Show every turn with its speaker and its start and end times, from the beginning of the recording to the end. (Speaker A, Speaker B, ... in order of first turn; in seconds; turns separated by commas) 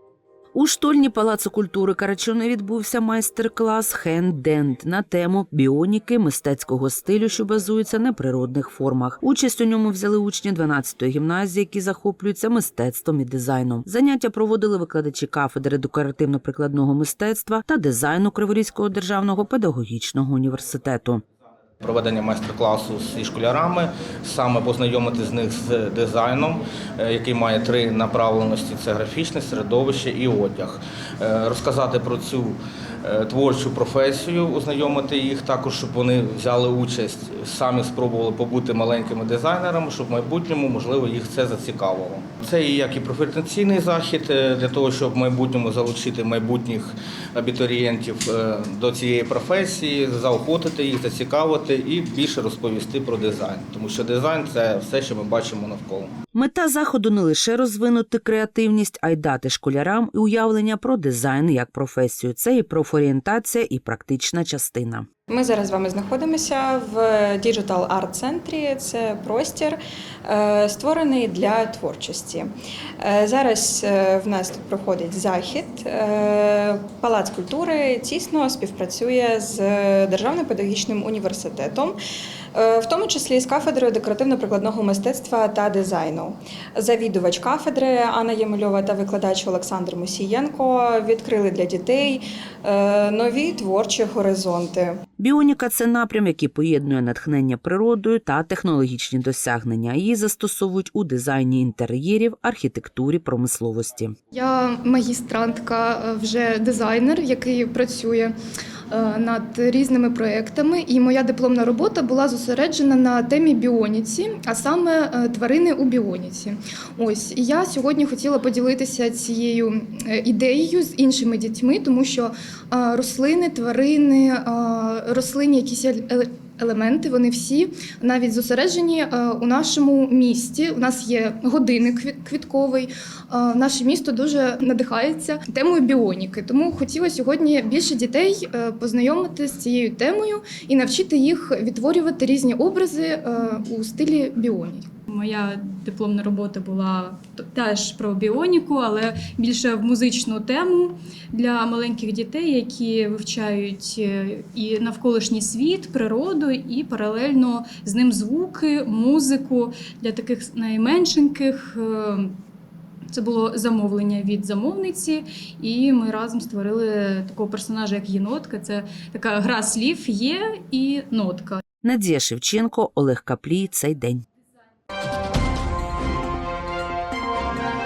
Speaker A: 0.5-21.2, Speaker B: 21.8-56.1, Speaker A: 56.3-65.1, Speaker C: 65.3-82.0, Speaker C: 82.5-95.0, Speaker A: 95.2-104.1, Speaker D: 104.3-108.3, Speaker D: 108.9-144.9, Speaker E: 145.1-162.3, Speaker E: 163.1-171.6, Speaker A: 171.8-174.2